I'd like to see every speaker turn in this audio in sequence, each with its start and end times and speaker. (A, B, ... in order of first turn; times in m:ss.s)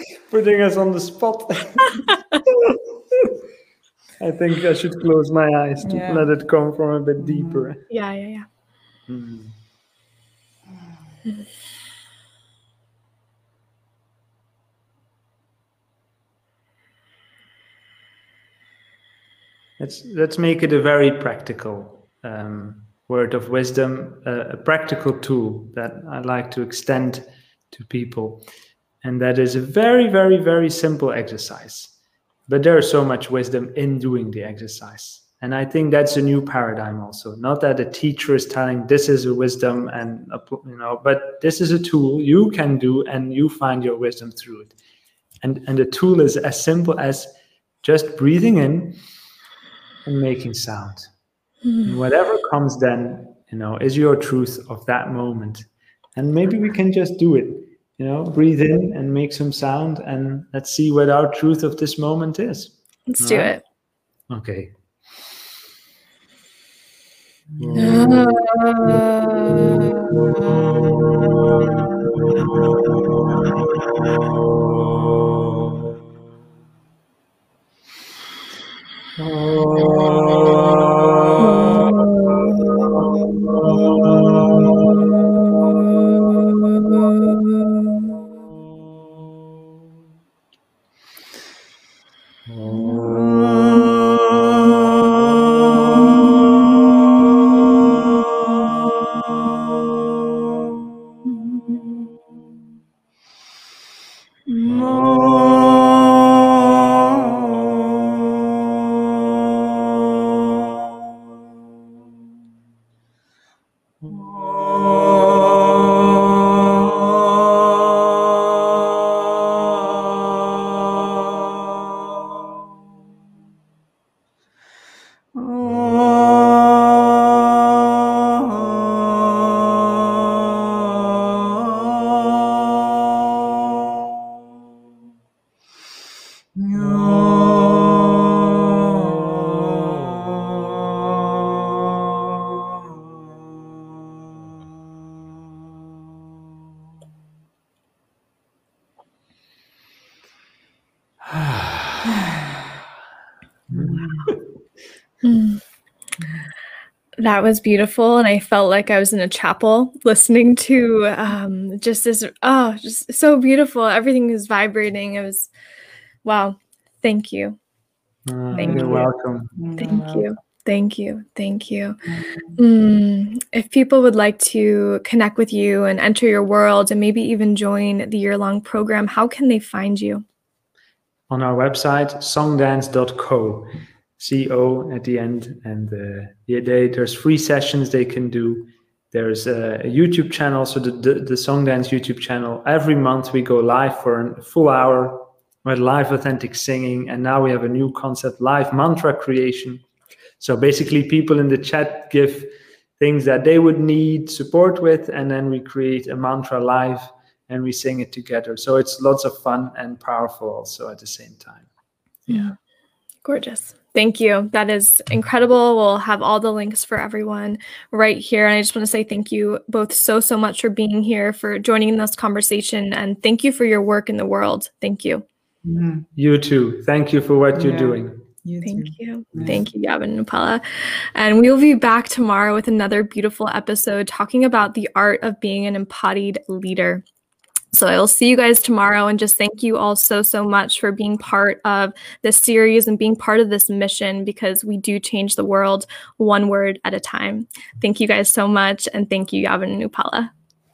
0:00.3-0:02.1 A
0:04.2-0:07.8 A
0:05.8-0:06.3 B
0:07.2-0:07.7 B
0:07.9-0:08.4 C
0:09.1-0:09.6 A
0:19.8-0:28.4 A
0:29.0-0:31.9 A
0:32.5-0:44.7 A
0:45.4-0:47.3 A
0:47.8-0:49.0 A
0:50.0-0:51.1 A
0:51.6-0:52.0 C
0:51.8-1:03.5 A
1:03.1-1:03.6 C
1:04.3-1:04.8 A
1:07.6-1:08.3 A
1:07.8-1:10.1 C
1:19.2-1:20.3 A
1:32.5-1:33.3 A
1:32.9-1:33.7 B
2:05.4-2:06.3 B
2:16.5-2:19.2 B
2:31.3-2:32.0 A
2:33.7-2:34.4 A
2:33.7-2:34.2 B
2:35.2-2:35.6 C
2:37.2-2:45.5 C
2:46.2-2:47.6 C
2:48.2-2:49.6 A
2:48.5-2:49.0 C
2:48.6-2:50.3 B
2:49.8-2:52.0 C
2:52.6-3:00.2 C
3:01.3-3:19.8 A
3:20.4-3:31.7 A
3:32.3-3:32.5 A
3:32.3-3:32.5 C
3:33.2-3:45.2 C
3:45.6-3:46.1 B
3:46.2-3:48.2 A
3:47.5-3:49.5 B
3:48.6-3:57.0 C
3:49.3-3:49.6 A
3:57.7-4:10.3 C